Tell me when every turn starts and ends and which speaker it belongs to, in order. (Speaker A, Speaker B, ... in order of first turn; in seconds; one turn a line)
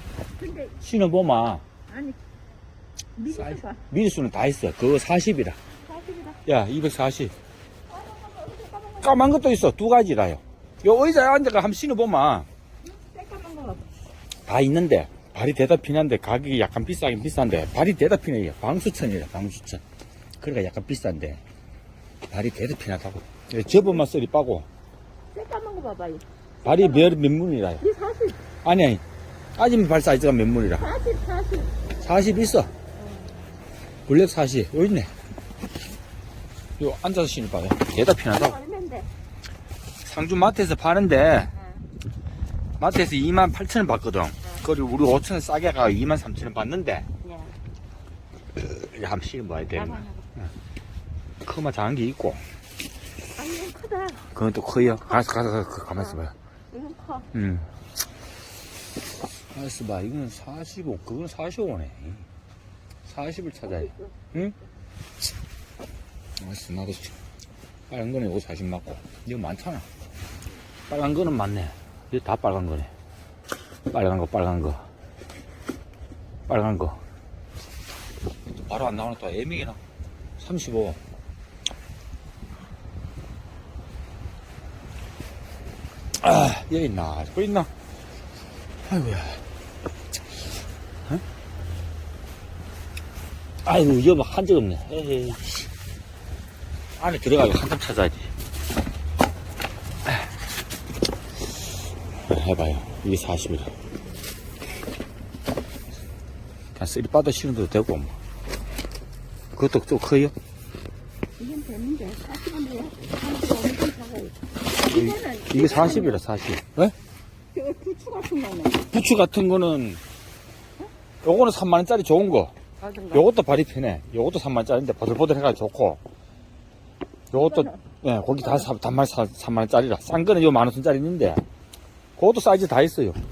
Speaker A: 0.4-0.8
Speaker B: 0.8-1.6
Speaker A: 1.9-2.2
Speaker A: 3.2-3.8
Speaker B: 3.3-5.6
Speaker A: 5.8-6.4
Speaker B: 6.5-7.3
Speaker A: 7.9-9.4
Speaker B: 9.0-12.5
Speaker A: 12.9-13.9
Speaker B: 14.5-19.8
Speaker B: 20.4-21.4
Speaker B: 22.3-24.7
Speaker A: 23.8-24.0
Speaker A: 25.3-27.2
Speaker B: 26.6-27.9
Speaker A: 27.8-28.4
Speaker B: 28.6-29.0
Speaker B: 29.6-30.9
Speaker A: 30.8-31.8
Speaker B: 32.0-32.7
Speaker B: 34.1-35.1
Speaker B: 36.8-38.6
Speaker A: 38.3-39.1
Speaker B: 40.0-41.5
Speaker B: 42.8-47.1
Speaker A: 47.2-47.5
Speaker B: 48.5-50.5
Speaker A: 49.7-50.2
Speaker B: 51.4-52.4
Speaker A: 53.4-55.4
Speaker B: 54.3-56.4
Speaker A: 56.0-57.3
Speaker B: 57.3-57.7
Speaker B: 59.5-62.3
Speaker B: 63.1-64.6
Speaker A: 63.6-64.1
Speaker B: 66.4-67.1
Speaker B: 67.9-69.9
Speaker B: 70.9-72.9
Speaker B: 73.9-74.9
Speaker B: 76.5-77.0
Speaker B: 78.6-79.8
Speaker B: 80.4-81.0
Speaker B: 86.2-87.7
Speaker B: 88.9-89.5
Speaker B: 93.6-95.7
Speaker B: 97.0-98.3
Speaker B: 102.3-103.7
Speaker B: 106.8-108.2
Speaker B: 109.5-110.3
Speaker A: 111.4-116.2
Speaker B: 114.9-117.0
Speaker A: 117.5-118.9
Speaker B: 118.9-120.0
Speaker B: 121.2-122.5
Speaker A: 122.8-123.2
Speaker B: 123.1-126.0
Speaker B: 127.3-131.4
Speaker A: 127.3-127.8
Speaker B: 132.2-133.2